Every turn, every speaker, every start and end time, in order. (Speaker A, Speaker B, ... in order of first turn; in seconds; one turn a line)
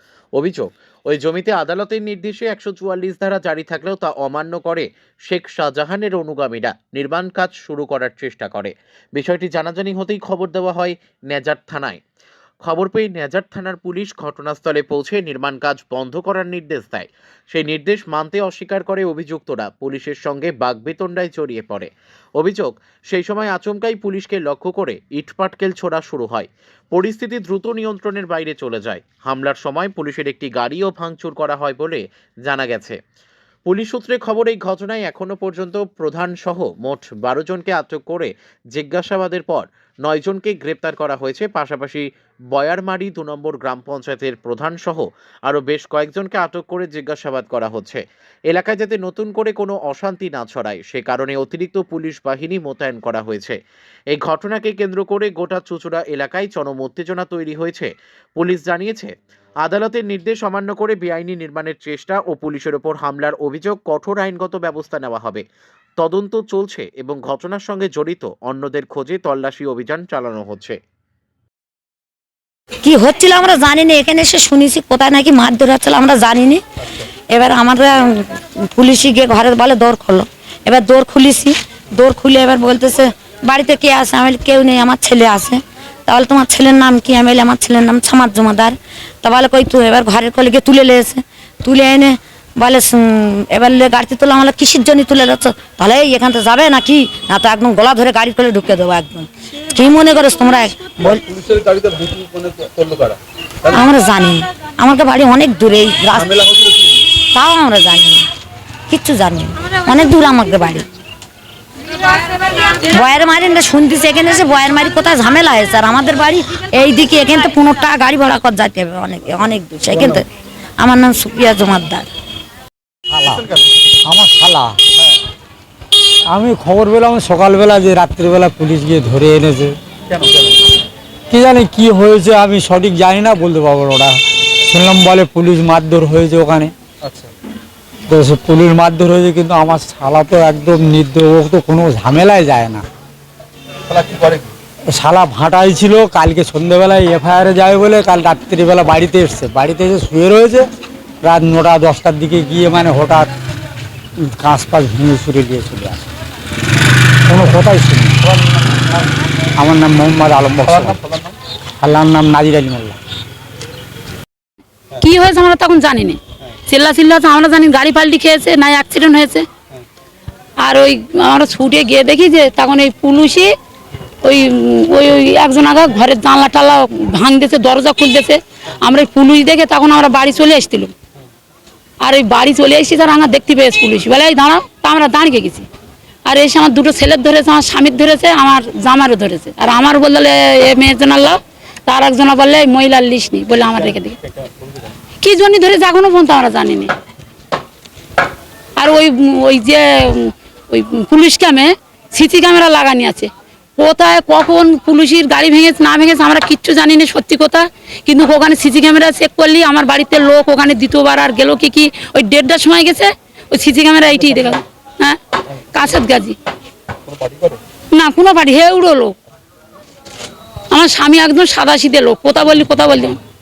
Speaker A: 0.4-12.0
Speaker A: 12.6-33.0
Speaker A: 33.6-53.6
Speaker A: 54.1-59.1
Speaker A: 59.6-65.4
Speaker A: 66.0-70.8
Speaker B: 72.8-76.6
Speaker B: 77.3-101.3
Speaker C: 101.3-103.2
Speaker B: 103.7-106.4
Speaker B: 107.2-108.3
Speaker B: 108.9-110.9
Speaker B: 112.1-122.1
Speaker D: 123.1-123.5
Speaker D: 124.0-124.8
Speaker D: 126.3-129.8
Speaker D: 131.3-136.7
Speaker D: 138.1-142.8
Speaker C: 143.9-144.5
Speaker D: 144.9-150.7
Speaker D: 151.2-153.3
Speaker D: 154.2-156.0
Speaker D: 157.5-158.1
Speaker D: 159.6-161.0
Speaker C: 160.7-161.3
Speaker D: 161.8-163.0
Speaker E: 165.0-169.5
Speaker E: 170.6-173.5
Speaker E: 174.2-180.9
Speaker E: 182.0-185.7
Speaker E: 186.2-194.2
Speaker C: 194.4-194.9
Speaker E: 195.2-196.9
Speaker E: 198.8-215.2
Speaker E: 215.7-216.3
Speaker C: 217.1-217.6
Speaker E: 217.9-219.1
Speaker E: 220.7-223.2